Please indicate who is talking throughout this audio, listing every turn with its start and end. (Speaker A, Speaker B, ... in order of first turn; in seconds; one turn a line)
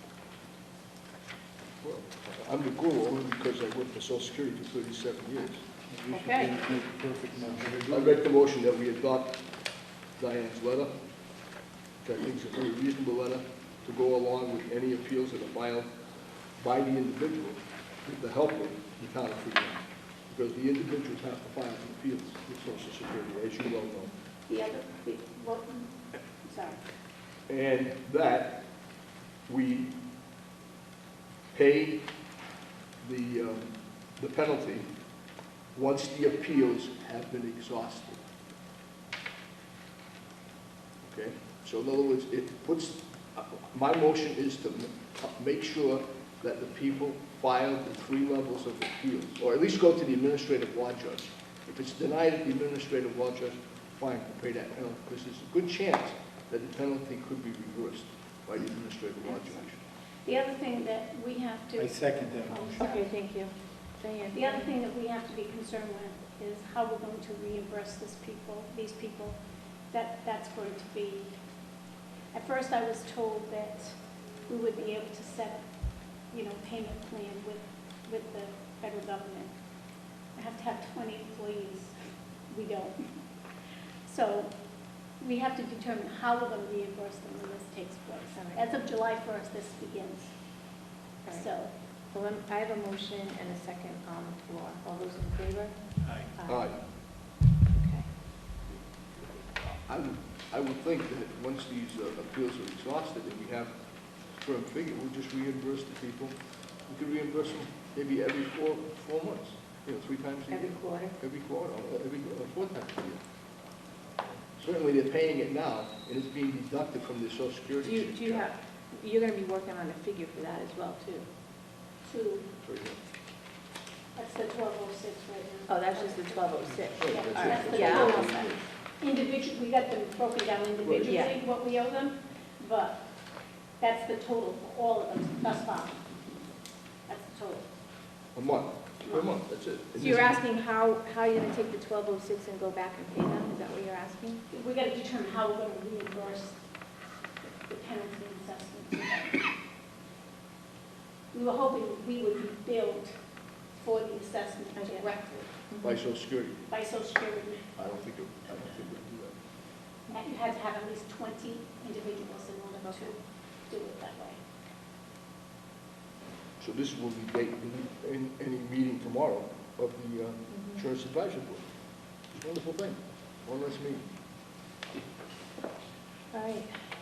Speaker A: 1.8-5.6
Speaker B: 5.9-8.2
Speaker C: 6.1-6.5
Speaker A: 7.5-9.4
Speaker A: 10.2-10.9
Speaker A: 12.0-15.9
Speaker A: 16.6-24.1
Speaker D: 24.5-26.8
Speaker A: 27.5-28.7
Speaker A: 29.5-29.9
Speaker A: 31.5-32.1
Speaker A: 33.0-34.9
Speaker A: 35.7-38.2
Speaker A: 41.0-59.8
Speaker D: 59.2-59.6
Speaker D: 60.2-63.1
Speaker B: 61.8-62.9
Speaker C: 62.8-64.7
Speaker D: 64.3-69.4
Speaker D: 69.9-71.3
Speaker D: 72.3-73.9
Speaker D: 74.5-75.6
Speaker D: 76.3-79.5
Speaker D: 80.3-81.9
Speaker D: 82.5-83.0
Speaker D: 84.0-84.5
Speaker D: 85.2-90.3
Speaker C: 88.3-88.6
Speaker C: 91.2-91.5
Speaker D: 91.3-91.7
Speaker C: 92.1-96.9
Speaker B: 96.0-96.3
Speaker A: 96.5-96.8
Speaker C: 97.7-98.5
Speaker A: 99.8-113.2
Speaker C: 110.5-111.2
Speaker A: 114.5-118.5
Speaker C: 117.8-121.3
Speaker D: 122.0-122.5
Speaker A: 122.6-123.0
Speaker D: 124.1-128.4
Speaker C: 125.7-128.5
Speaker A: 126.9-128.6
Speaker D: 129.0-133.0
Speaker A: 130.8-131.2
Speaker C: 131.0-131.4
Speaker D: 133.8-136.0
Speaker D: 137.1-137.7
Speaker A: 138.3-140.4
Speaker C: 139.9-144.4
Speaker D: 144.5-146.6
Speaker D: 147.4-149.4
Speaker D: 151.3-153.1
Speaker D: 153.7-155.1
Speaker C: 154.8-156.1
Speaker A: 155.8-156.6
Speaker D: 156.7-157.7
Speaker A: 157.8-159.3
Speaker D: 160.1-164.4
Speaker C: 162.8-163.1
Speaker A: 166.6-171.7
Speaker C: 170.5-170.8
Speaker A: 172.2-174.0
Speaker C: 176.3-176.7